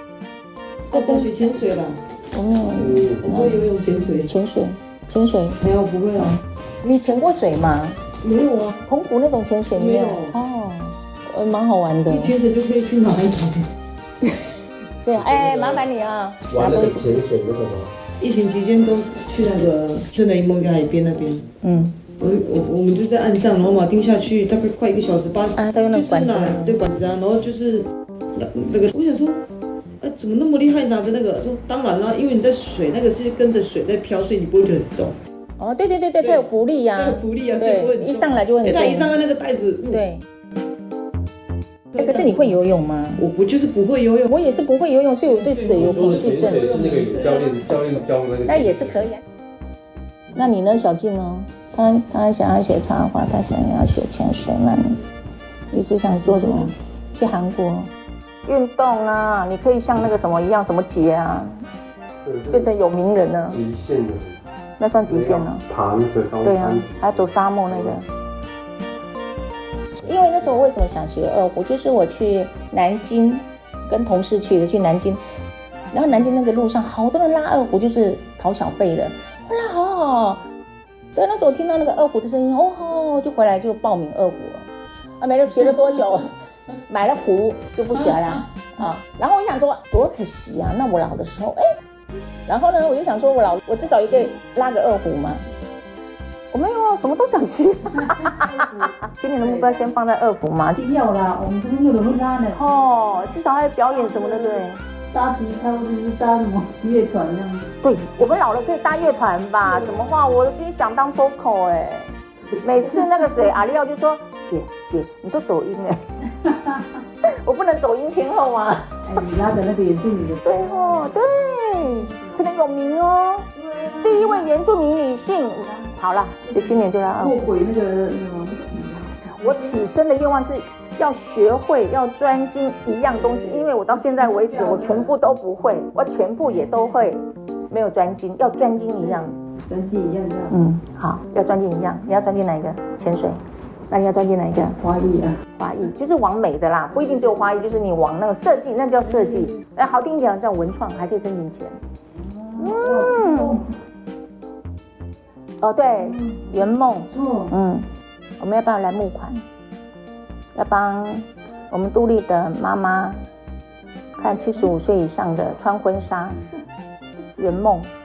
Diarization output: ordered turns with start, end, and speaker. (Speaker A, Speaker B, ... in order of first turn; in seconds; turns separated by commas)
Speaker A: 0.9-2.0, Speaker B: 0.9-1.5, Speaker B: 2.3-3.7, Speaker C: 2.8-3.2, Speaker A: 3.2-4.3, Speaker B: 4.2-5.6, Speaker A: 5.6-6.4, Speaker B: 6.8-8.0, Speaker A: 8.2-8.8, Speaker B: 8.8-12.3, Speaker A: 9.7-10.3, Speaker A: 12.1-13.7, Speaker B: 14.2-17.0, Speaker C: 15.1-15.8, Speaker C: 16.5-18.0, Speaker A: 18.2-21.4, Speaker B: 21.6-22.0, Speaker A: 22.2-29.4, Speaker B: 25.6-26.8, Speaker A: 30.0-35.1, Speaker B: 35.6-39.1, Speaker A: 37.0-40.0, Speaker B: 39.9-40.2, Speaker A: 41.9-42.2, Speaker B: 42.0-43.3, Speaker A: 43.2-44.6, Speaker B: 44.2-46.8, Speaker A: 45.3-47.5, Speaker C: 45.4-49.0, Speaker B: 48.5-49.2, Speaker B: 50.3-55.0, Speaker B: 55.7-57.9, Speaker B: 58.5-61.6, Speaker C: 62.2-62.7, Speaker B: 62.5-63.6, Speaker C: 63.5-64.4, Speaker B: 64.8-65.6, Speaker C: 65.0-68.0, Speaker B: 66.4-68.0, Speaker B: 70.0-75.2, Speaker C: 70.0-70.5, Speaker B: 75.9-80.4, Speaker B: 81.1-84.7, Speaker B: 85.2-91.7, Speaker B: 92.5-95.4, Speaker B: 96.5-100.8, Speaker D: 98.1-99.8, Speaker D: 100.8-102.6, Speaker B: 102.5-104.8, Speaker D: 103.9-107.7, Speaker B: 107.8-116.0, Speaker D: 109.6-110.0, Speaker D: 116.4-116.8, Speaker B: 117.3-118.9, Speaker D: 119.0-121.1, Speaker B: 120.4-123.5, Speaker D: 121.9-122.4, Speaker D: 123.6-124.5, Speaker B: 124.0-127.5, Speaker D: 127.2-129.6, Speaker B: 129.2-139.4, Speaker D: 134.0-135.1, Speaker D: 139.0-140.5, Speaker B: 140.5-144.8, Speaker D: 144.8-145.4, Speaker B: 145.6-151.8, Speaker D: 152.2-153.7, Speaker B: 152.6-153.6, Speaker B: 155.6-157.9, Speaker D: 157.1-157.5, Speaker B: 158.4-159.4, Speaker B: 160.5-163.2, Speaker B: 164.2-166.4, Speaker B: 167.4-167.9